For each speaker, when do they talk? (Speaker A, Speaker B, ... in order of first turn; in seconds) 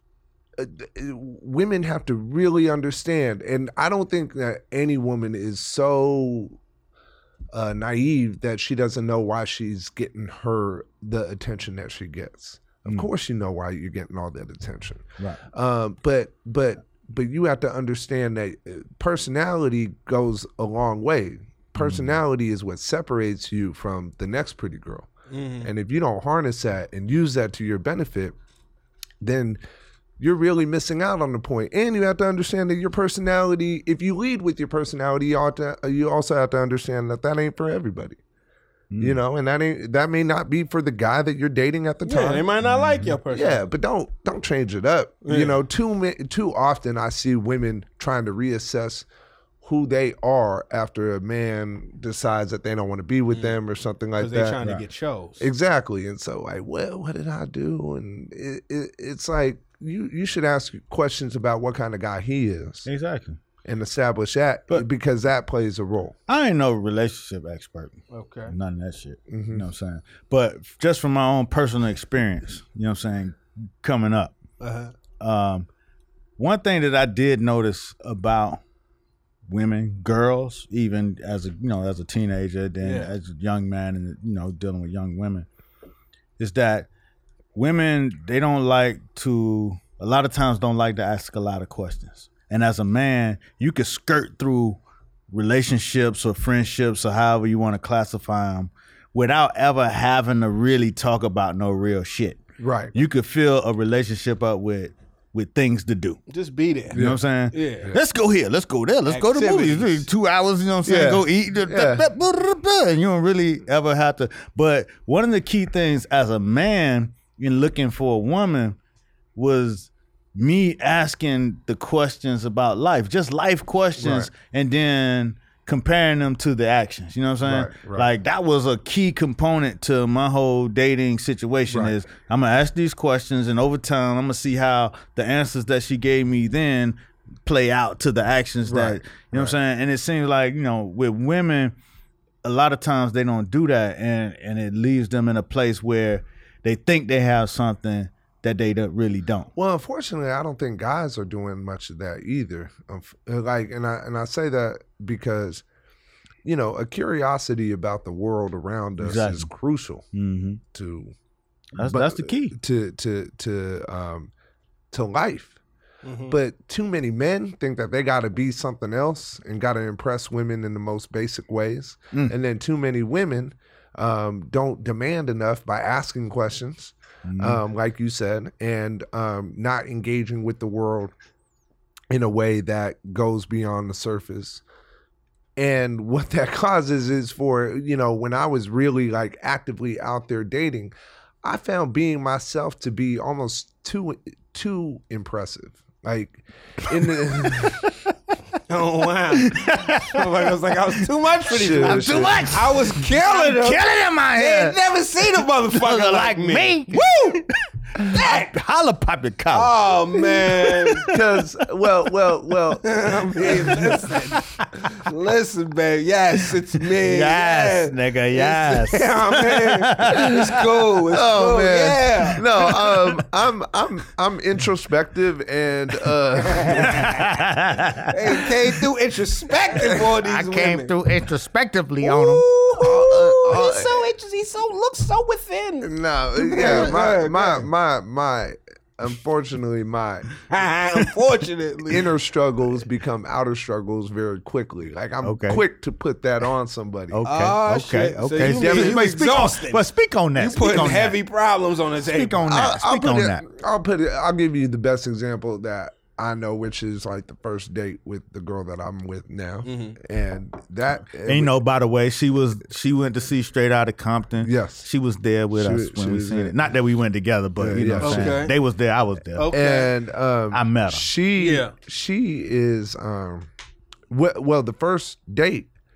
Speaker A: 0.6-6.6, 7.5-25.1, 25.6-28.4, 29.2-29.6, 30.2-38.2, 39.0-42.5, 43.3-49.1, 49.6-54.6, 55.4-62.9, 63.6-66.2, 69.3-69.7, 102.6-103.0, 106.9-107.2, 110.8-112.1, 124.0-124.3, 127.4-128.1, 131.7-131.9, 138.7-139.6, 149.6-155.6, 156.4-160.1, 160.7-161.1, 161.8-164.3, 164.9-165.6, 166.3-181.1, 182.1-184.6, 185.6-197.9, 201.5-202.7, 211.0-213.9, 221.1-227.2, 232.8-234.1, 235.8-240.3, 241.9-247.2, 248.4-249.1, 252.4-261.6, 264.4-264.9, 265.5-266.6, 267.6-268.5, 269.5-273.5, 274.1-275.7
Speaker B: 21.8-22.1, 38.9-39.2, 42.6-43.2, 62.9-63.4, 66.3-74.4, 75.2-75.7, 76.4-78.6, 79.5-85.5, 86.4-86.9, 87.5-94.8, 95.3-102.4, 102.9-106.2, 106.9-118.8, 119.3-141.8, 142.4-149.5, 159.0-159.5, 160.1-160.6, 161.8-162.6, 177.3-177.6, 197.5-197.9, 199.3-200.5, 201.8-204.8, 205.7-211.1, 213.5-214.7, 216.8-220.9, 222.8-223.1, 226.8-228.7, 229.9-232.5, 236.6-236.9, 245.2-245.6, 247.1-251.2, 252.1-253.4, 261.2-269.5, 270.5-271.1
Speaker C: 25.3-25.7, 42.0-43.6, 45.3-45.6, 53.3-53.6, 54.2-55.5, 68.1-68.5, 74.6-74.9, 82.8-83.1, 106.3-107.0, 107.5-107.9, 109.1-110.1, 166.0-166.4, 198.7-203.8, 204.4-207.4, 208.0-208.5, 209.5-211.2, 212.9-222.4, 226.5-227.3, 228.1-230.9, 232.0-237.6, 240.5-242.1, 247.2-252.6, 259.6-260.0, 268.0-268.6, 269.4-269.9, 271.4-271.7